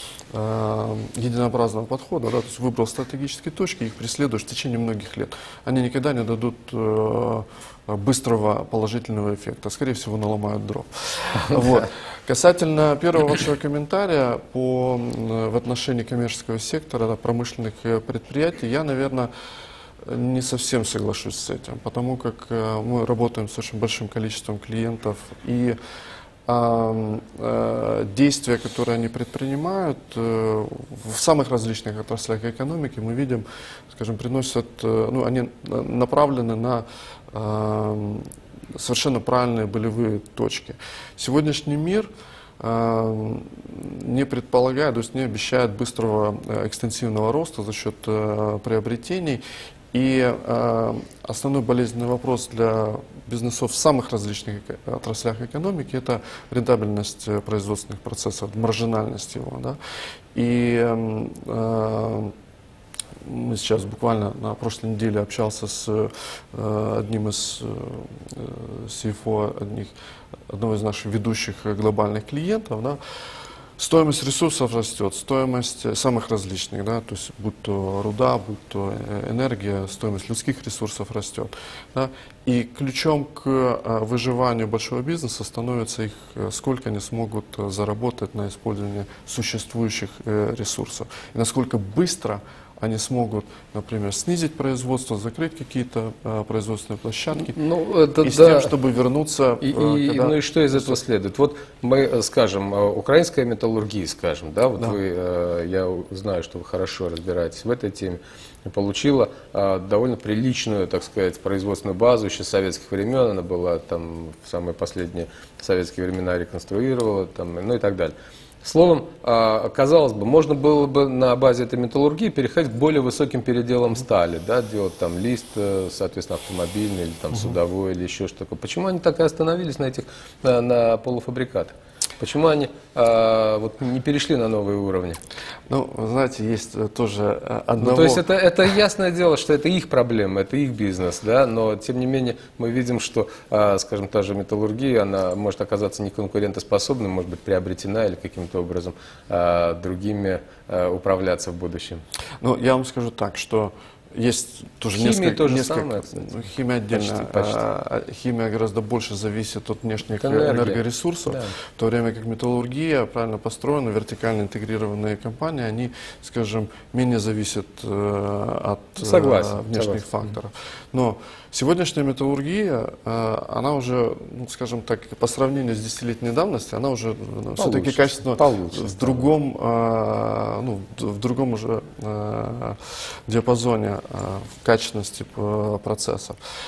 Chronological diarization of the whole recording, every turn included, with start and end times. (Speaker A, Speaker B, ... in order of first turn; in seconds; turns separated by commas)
Speaker A: 0.3-19.3, Speaker A: 20.0-25.8, Speaker A: 26.5-59.8, Speaker A: 60.3-62.3, Speaker A: 63.2-69.9, Speaker A: 70.5-73.0, Speaker A: 73.8-97.5, Speaker B: 97.3-98.7, Speaker A: 98.2-101.0, Speaker B: 99.6-135.2, Speaker A: 127.3-127.6, Speaker A: 135.7-138.2, Speaker B: 137.8-152.0, Speaker A: 152.4-186.4, Speaker B: 154.9-157.6, Speaker B: 160.2-161.5, Speaker B: 169.0-170.3, Speaker B: 177.6-179.3